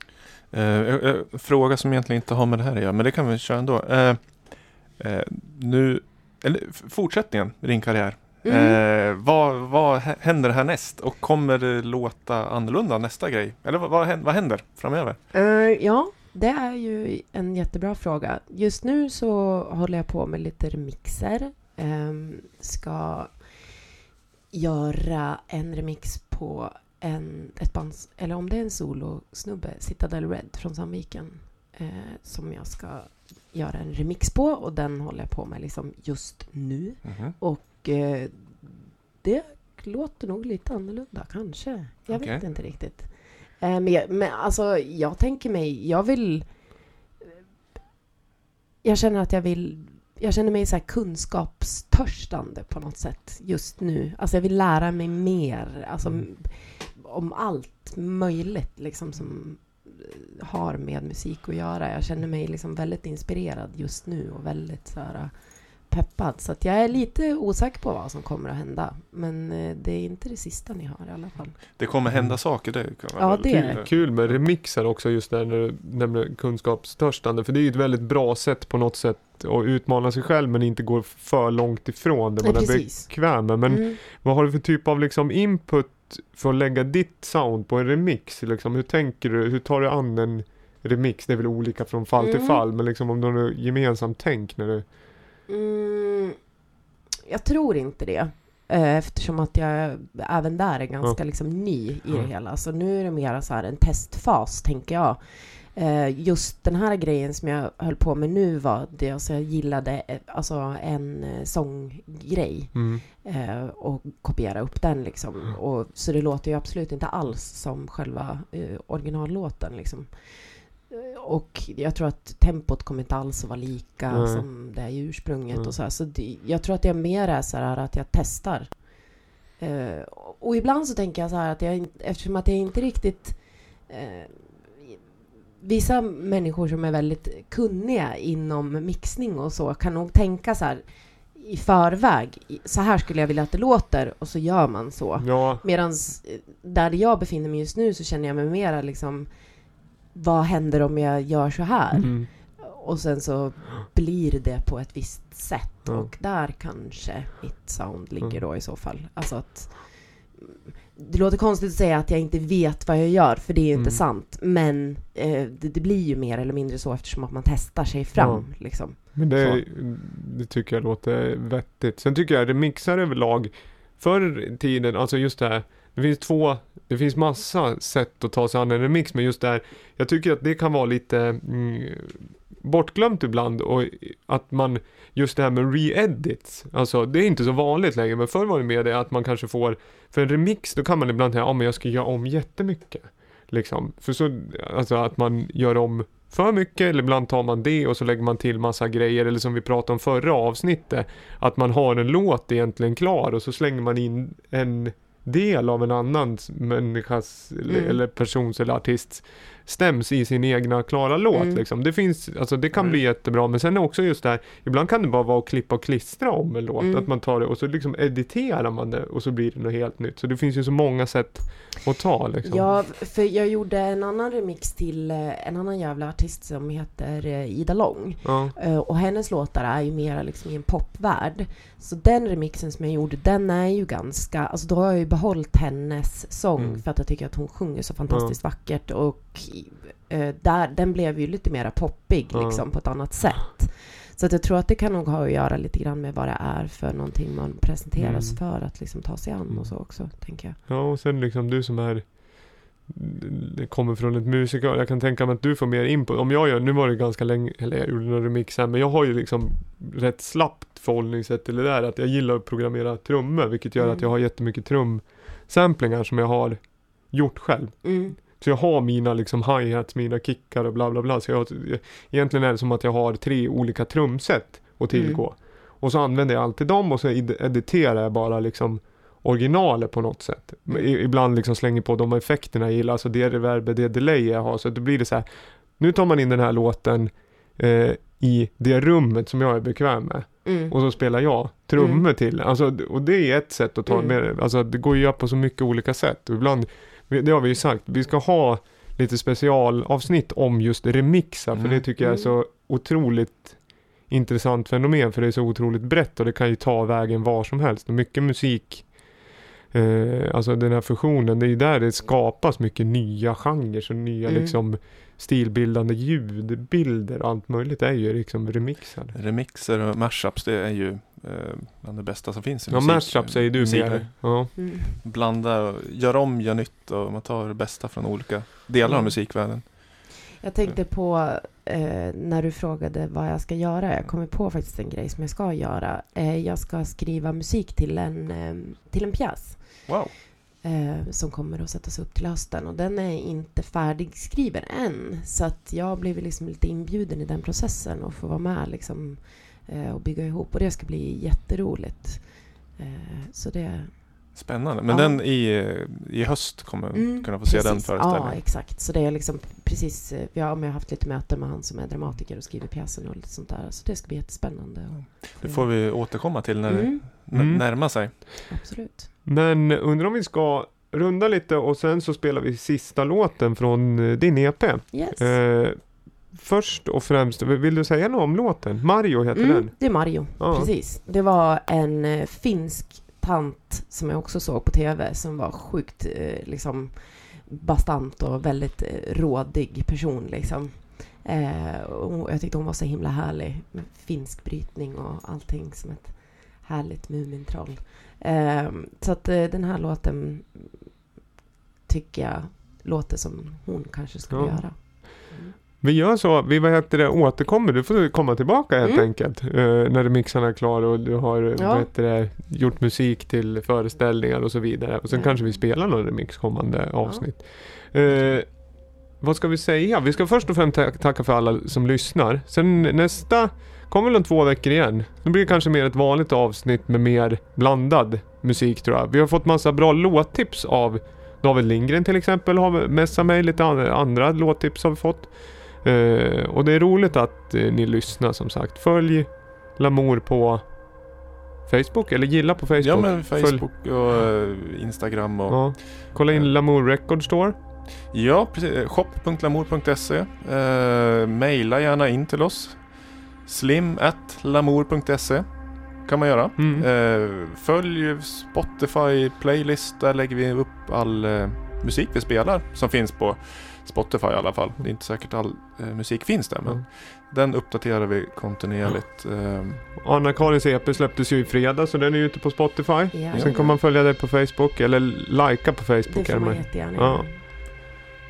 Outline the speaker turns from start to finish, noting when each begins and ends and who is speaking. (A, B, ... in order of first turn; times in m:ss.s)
0:00.5-0:15.2 A
0:08.4-0:08.8 B
0:15.3-0:23.6 B
0:24.5-0:46.6 B
0:37.0-0:37.3 A
0:42.1-0:42.4 A
0:48.8-1:11.6 B
1:11.8-1:14.4 A
1:12.1-1:12.4 C
1:13.2-1:13.8 B
1:13.7-1:34.8 C
1:22.4-1:24.0 B
1:32.2-1:32.6 B
1:35.5-1:36.4 B
1:37.2-2:15.1 B
1:52.7-1:53.0 C
2:04.1-2:04.4 C
2:15.6-2:29.5 B
2:25.2-2:25.6 C
2:30.1-2:49.6 B
2:31.9-2:32.3 C
2:35.8-2:36.1 C
2:43.7-2:44.0 C
2:48.2-3:42.8 C
3:27.7-3:28.0 B
3:31.3-3:31.6 B
3:32.7-3:33.0 A
3:36.8-3:37.1 B
3:42.4-4:10.6 B
3:48.2-3:48.5 C
3:56.6-3:56.8 C
3:58.1-3:58.4 C
4:02.3-4:02.6 C
4:08.0-4:08.4 C
4:09.5-4:09.8 C
4:10.7-5:09.0 C
4:23.8-4:24.1 B
4:27.8-4:28.2 B
4:34.9-4:35.2 B
4:50.4-4:50.8 B
4:51.8-4:52.0 B
4:53.9-4:54.2 B
5:01.5-5:01.8 A
5:02.0-5:02.3 B
5:09.7-5:19.2 C
5:14.3-5:14.6 B
5:19.1-5:30.8 A
5:22.7-5:24.6 C
5:24.6-5:25.0 B
5:28.8-5:29.7 B
5:30.4-5:40.0 B
5:39.9-5:40.2 A
5:40.6-5:55.2 B
5:54.3-5:58.4 A
5:56.9-6:07.0 B
6:05.0-6:08.4 A
6:07.3-6:08.3 C
6:08.5-6:09.1 B
6:09.2-6:20.7 C
6:14.9-6:15.4 B
6:19.3-6:41.2 B
6:41.8-6:45.6 B
6:44.3-6:45.0 C
6:45.8-7:20.7 C
6:48.8-6:49.1 B
6:51.6-6:51.9 B
6:55.1-6:55.6 B
6:57.0-6:57.3 B
7:21.6-7:23.6 C
7:22.8-7:26.5 A
7:25.5-7:27.6 C
7:28.1-7:49.8 A
7:36.6-7:36.9 C
7:50.0-7:57.3 C
7:53.1-7:53.8 B
7:53.3-7:53.6 A
7:56.1-7:57.7 B